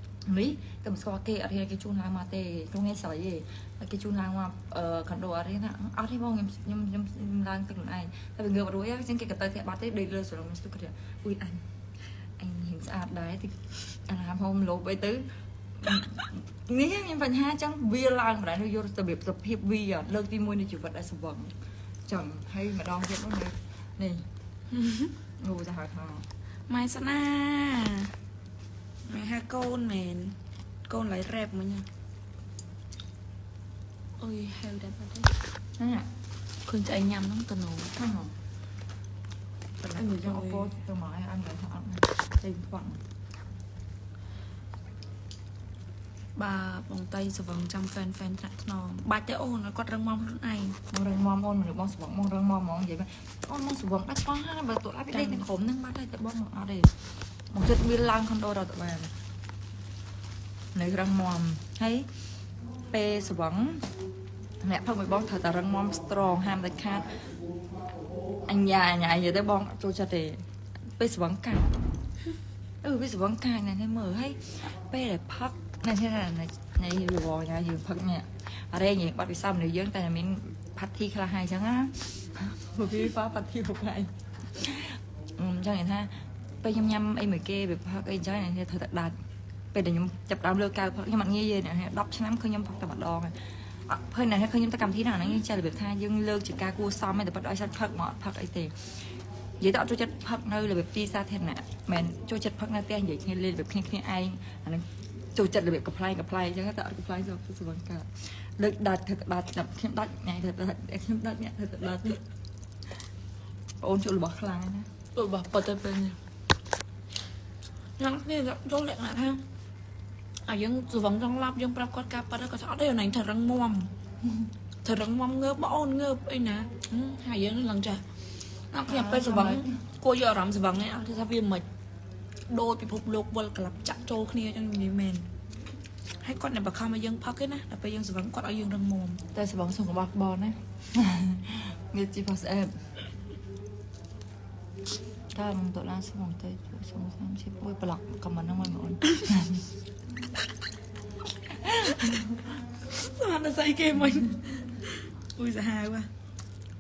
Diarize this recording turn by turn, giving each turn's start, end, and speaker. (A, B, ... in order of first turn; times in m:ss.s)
0:00.3-0:11.6 A
0:12.4-0:15.2 A
0:15.8-0:21.5 A
0:22.1-0:24.3 A
0:24.7-0:25.1 B
0:25.4-0:26.3 A
0:26.7-0:28.1 B
0:29.1-0:30.4 B
0:30.9-0:31.9 B
0:34.2-0:35.4 B
0:35.8-0:36.1 A
0:36.7-0:38.0 B
0:38.0-0:38.3 A
0:39.8-0:40.7 B
0:40.0-0:43.0 A
0:46.4-0:50.8 B
0:50.9-0:56.9 A
0:55.1-0:55.5 B
0:57.5-0:59.1 A
1:00.7-1:02.1 A
1:02.9-1:03.9 A
1:04.6-1:07.2 A
1:08.5-1:10.4 A
1:11.0-1:11.9 A
1:12.8-1:29.1 A
1:29.7-1:38.9 A
1:39.6-1:52.2 A
1:53.8-1:54.9 A
1:55.2-1:56.2 B
1:58.0-1:59.4 B
2:00.5-2:03.9 B
2:04.8-2:08.0 B
2:08.7-2:11.7 B
2:08.9-2:09.8 A
2:12.5-2:15.3 B
2:16.2-2:19.2 B
2:19.3-2:22.8 A
2:25.3-2:29.7 A
2:31.5-2:32.5 A
2:32.9-2:36.1 B